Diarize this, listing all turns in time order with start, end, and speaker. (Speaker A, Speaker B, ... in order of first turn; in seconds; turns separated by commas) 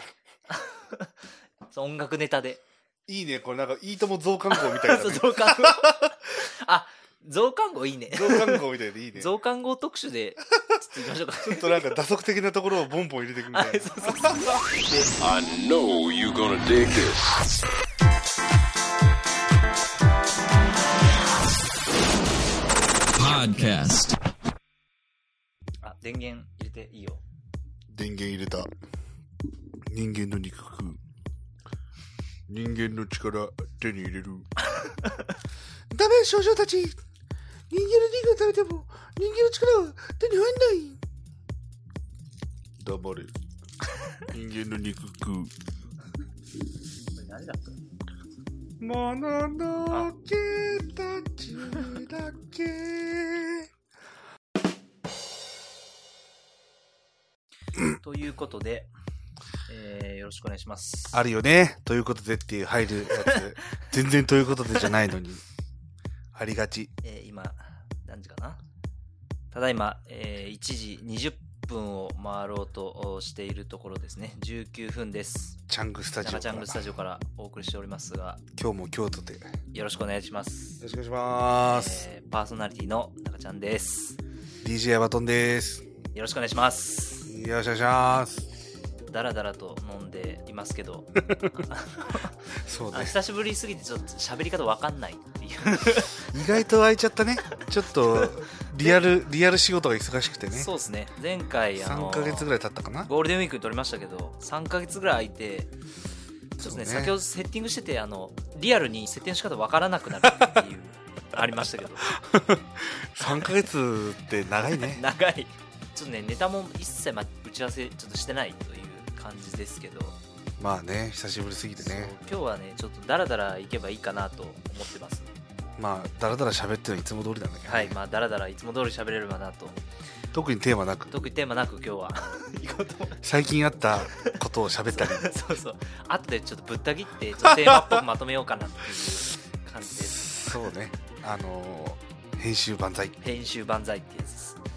Speaker A: 0.5-1.1, Speaker A: 1.7-2.6, Speaker B: 3.1-6.1, Speaker A: 4.5-8.6, Speaker B: 8.1-9.3, Speaker A: 9.2-11.9, Speaker B: 11.4-14.6, Speaker A: 13.5-15.1, Speaker C: 15.2-17.4, Speaker C: 23.2-24.1, Speaker A: 25.8-27.2, Speaker B: 27.9-28.7, Speaker B: 29.9-31.0, Speaker B: 32.5-34.5, Speaker B: 35.9-37.0, Speaker B: 37.7-41.0, Speaker B: 42.8-43.3, Speaker B: 44.3-45.5, Speaker A: 47.1-47.8, Speaker B: 48.8-53.7, Speaker A: 58.0-58.9, Speaker A: 59.7-61.2, Speaker B: 61.1-65.4, Speaker A: 63.2-63.8, Speaker B: 66.3-66.9, Speaker A: 67.0-68.6, Speaker A: 69.5-75.6, Speaker B: 75.7-76.9, Speaker A: 76.2-78.4, Speaker B: 78.6-79.5, Speaker A: 79.7-80.8, Speaker B: 80.8-82.1, Speaker A: 81.6-84.2, Speaker B: 84.6-85.9, Speaker A: 86.2-87.3, Speaker B: 87.3-88.5, Speaker A: 89.1-96.5, Speaker B: 92.6-93.2, Speaker B: 96.3-100.7, Speaker A: 98.1-99.0, Speaker A: 100.5-102.5, Speaker B: 101.8-103.1, Speaker A: 103.1-105.7, Speaker B: 106.6-107.2, Speaker A: 106.6-112.1, Speaker B: 112.1-115.0, Speaker A: 113.2-113.5, Speaker A: 114.7-120.2, Speaker B: 120.6-122.1, Speaker A: 121.8-125.3, Speaker B: 125.8-128.0, Speaker A: 127.6-129.8, Speaker B: 130.3-131.2, Speaker A: 131.1-133.2, Speaker B: 133.2-135.3, Speaker A: 134.9-140.7, Speaker B: 137.4-138.0, Speaker B: 139.8-143.2, Speaker A: 143.2-144.6